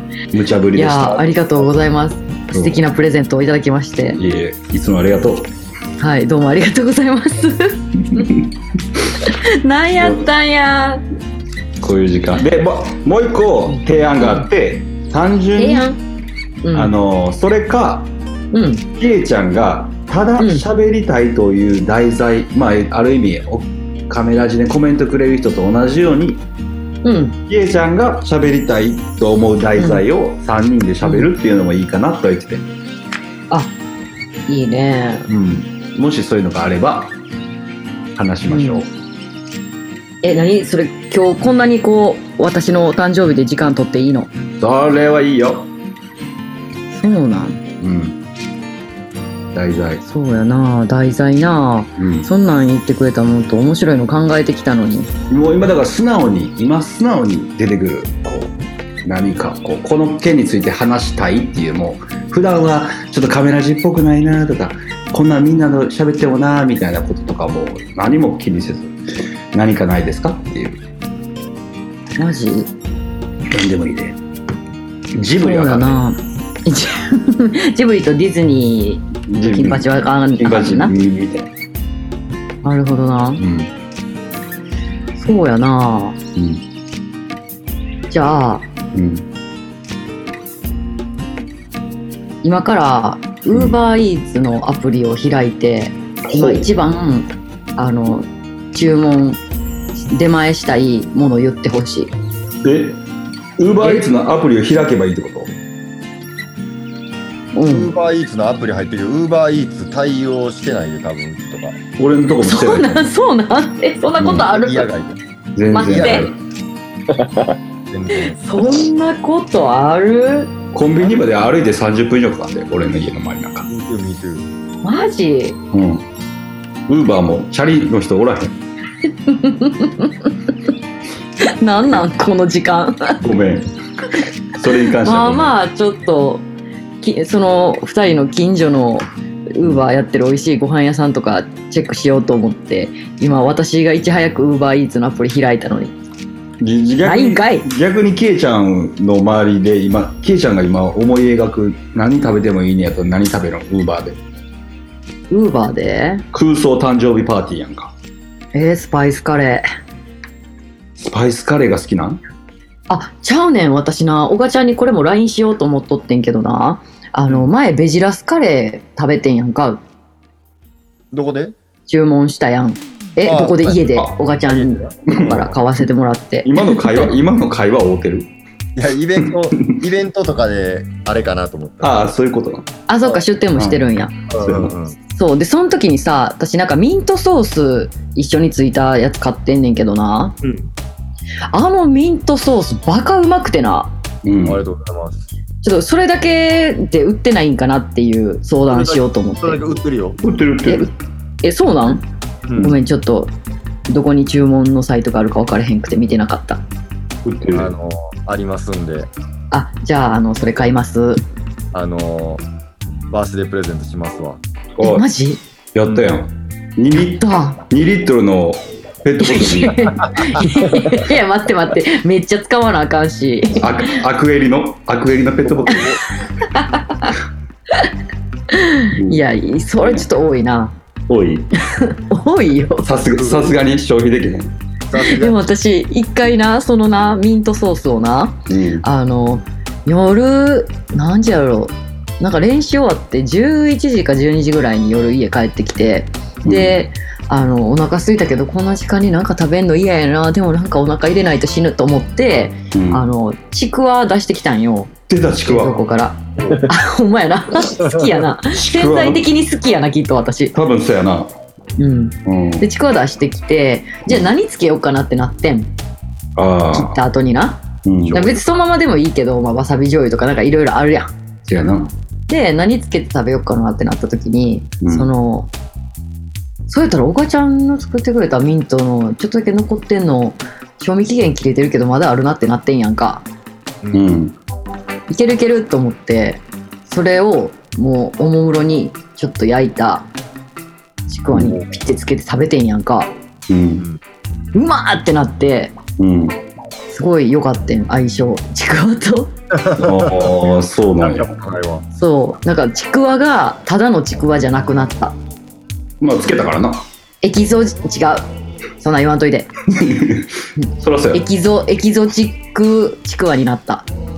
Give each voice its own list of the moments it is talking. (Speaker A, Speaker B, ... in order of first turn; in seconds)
Speaker A: 0.3-1.3, 2.5-2.8, 4.1-5.5, 8.1-8.5, 11.8-15.9, 16.7-18.1, 19.0-26.4, 27.5-32.6, 35.3-37.1, 38.1-38.9, 44.6-45.7, 47.8-48.2, 49.5-50.0, 52.0-52.3, 55.3-58.5, 59.0-68.9, 69.5-70.8, 73.5-74.2, 75.2-76.0, 79.3-81.5, 83.4-83.7, 86.4-86.6, 88.9-89.2, 96.3-96.7, 102.6-103.0, 103.6-105.5, 112.0-113.0, 114.2-114.5, 115.5-116.3, 120.7-123.7, 125.7-126.0, 126.9-128.5, 133.2-133.7, 134.5-135.5, 146.6-154.2, 156.3-157.9, 161.0-162.2, 175.1-175.5, 176.4-178.3, 179.3-179.8, 181.8-182.7, 184.4-184.7, 194.2-194.6, 200.2-200.9, 207.2-207.7, 214.8-215.1, 215.7-220.4, 223.6-225.9, 228.9-229.2, 229.8-230.1, 231.1-231.5, 232.8-234.5, 238.5-238.8, 246.4-246.8, 252.7-253.1, 255.1-255.8, 258.5-259.2, 260.5-261.3, 262.2-262.6, 266.4-267.0, 267.9-268.4, 271.5-271.9, 274.8-275.1, 283.9-284.4, 293.5-293.9, 296.0-296.4, 299.8-301.3, 306.0-306.9, 309.7-311.2
Speaker B: 0.7-4.2, 6.0-8.3, 9.2-11.0, 13.7-14.5, 15.6-16.0, 16.6-16.9, 18.5-18.9, 20.4-20.6, 27.0-27.4, 29.8-30.0, 31.0-31.3, 34.5-35.3, 38.5-38.8, 40.2-44.3, 46.9-47.6, 50.0-55.1, 72.2-72.7, 75.4-80.9, 82.6-83.4, 85.1-86.2, 88.1-88.6, 92.4-99.4, 100.0-102.1, 103.8-104.1, 107.5-107.9, 112.4-114.9, 115.7-116.3, 118.2-120.5, 124.8-125.6, 129.1-130.3, 131.4-133.2, 135.0-136.4, 137.0-145.9, 147.0-147.7, 155.3-156.2, 158.5-159.6, 162.9-169.8, 171.9-177.1, 182.9-184.1, 185.1-190.4, 191.5-193.9, 195.6-199.6, 200.7-200.9, 201.4-202.0, 202.6-203.3, 203.9-206.6, 209.5-211.2, 214.8-215.4, 216.9-217.6, 219.2-223.7, 226.5-227.1, 228.5-230.7, 231.7-232.9, 235.0-254.9, 255.4-260.5, 261.8-265.7, 266.7-271.1, 272.3-275.5, 276.7-283.2, 285.1-290.1, 291.1-293.1, 294.5-295.7, 296.9-299.3, 301.9-305.1, 307.2-308.3, 308.8-309.5, 310.6-313.9
Speaker C: 107.7-111.8, 114.4-115.2, 115.8-116.2, 117.9-118.8, 123.7-124.5, 171.1-171.5, 173.2-173.8, 174.5-175.0, 178.8-182.0, 184.3-185.0, 190.4-190.7, 194.4-195.3, 198.7-200.2, 202.5-202.8, 207.5-209.1, 211.7-212.4, 213.1-214.4, 225.4-226.0, 233.1-233.5, 234.9-235.4, 256.4-256.7, 299.5-300.5, 301.0-301.9